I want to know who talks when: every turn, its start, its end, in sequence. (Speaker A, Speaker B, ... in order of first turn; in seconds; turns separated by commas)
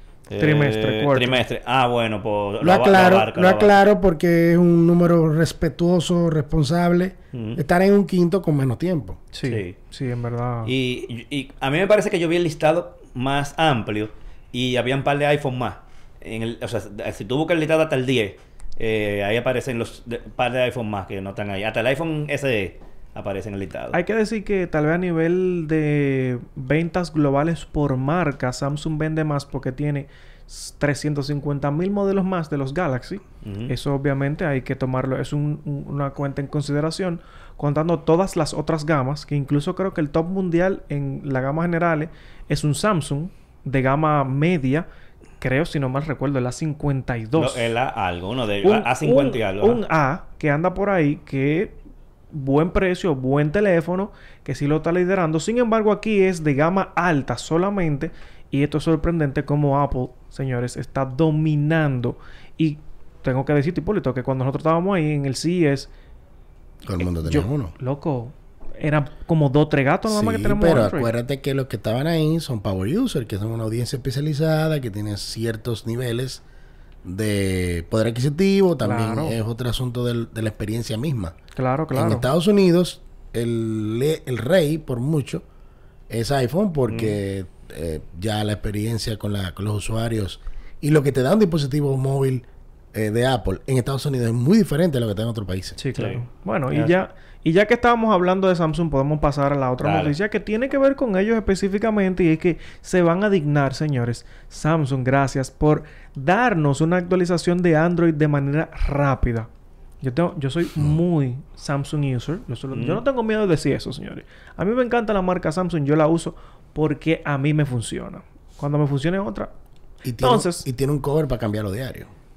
Speaker A: 0.3-3.8, Speaker B: 0.4-1.4, Speaker C: 2.6-9.2, Speaker A: 7.3-7.6, Speaker B: 9.3-10.7, Speaker A: 9.4-9.7, Speaker A: 10.6-23.9, Speaker B: 23.9-44.9, Speaker A: 33.4-33.7, Speaker B: 45.4-47.7, Speaker A: 47.4-49.8, Speaker B: 48.6-51.8, Speaker B: 52.3-65.9, Speaker C: 66.8-67.7, Speaker B: 67.0-71.1, Speaker C: 70.1-76.4, Speaker C: 77.0-81.3, Speaker B: 78.8-79.3, Speaker B: 81.5-82.2, Speaker C: 81.9-85.4, Speaker C: 86.1-95.8, Speaker A: 86.9-87.2, Speaker B: 95.8-109.5, Speaker A: 95.9-96.9, Speaker A: 99.8-100.2, Speaker B: 110.0-119.5, Speaker A: 112.7-113.0, Speaker C: 120.0-122.1, Speaker B: 120.2-120.7